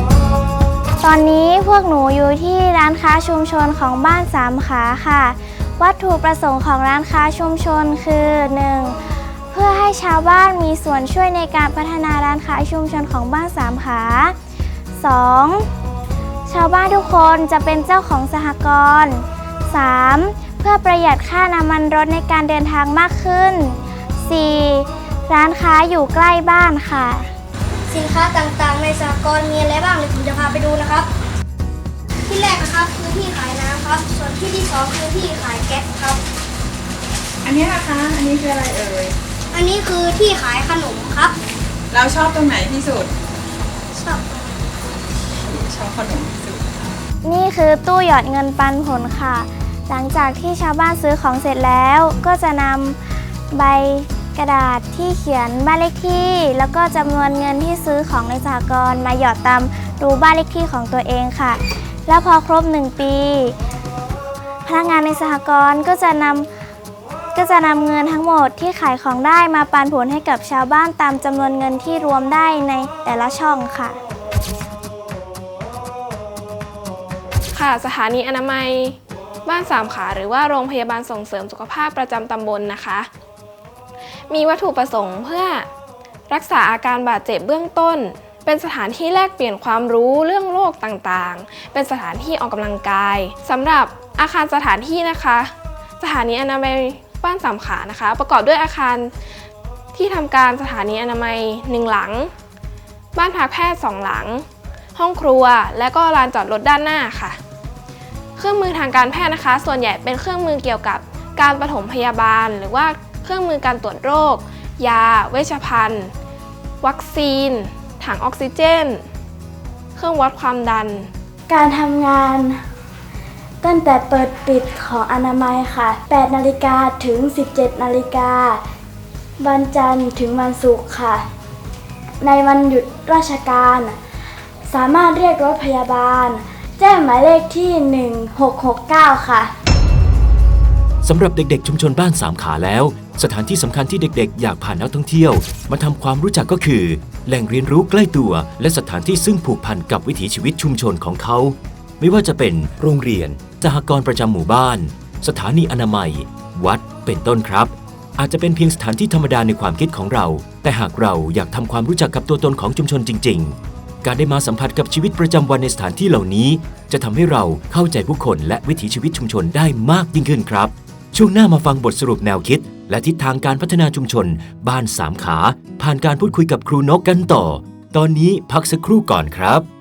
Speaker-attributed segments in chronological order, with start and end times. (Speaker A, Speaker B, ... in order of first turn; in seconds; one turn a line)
Speaker A: 1.0-8.9
Speaker A: 9.5-14.3
Speaker A: 15.0-15.7
Speaker A: 16.5-27.3
Speaker B: 27.9-31.1
Speaker B: 32.3-36.2
Speaker C: 37.4-39.2
Speaker B: 39.5-41.4
Speaker C: 41.9-43.1
Speaker B: 43.9-44.6
Speaker C: 45.2-47.0
Speaker A: 47.2-53.0
Speaker A: 53.5-63.6
Speaker A: 64.7-66.5
Speaker A: 67.3-74.0
Speaker D: 77.5-83.1
Speaker D: 84.3-85.7
Speaker D: 86.3-99.1
Speaker D: 100.0-102.3
Speaker D: 103.2-104.4
Speaker D: 105.0-107.4
Speaker D: 108.4-116.1
Speaker D: 116.8-119.0
Speaker D: 120.0-121.1
Speaker E: 121.5-122.6
Speaker E: 123.6-128.6
Speaker E: 129.4-131.2
Speaker E: 132.2-134.0
Speaker E: 134.7-139.5
Speaker F: 141.0-179.7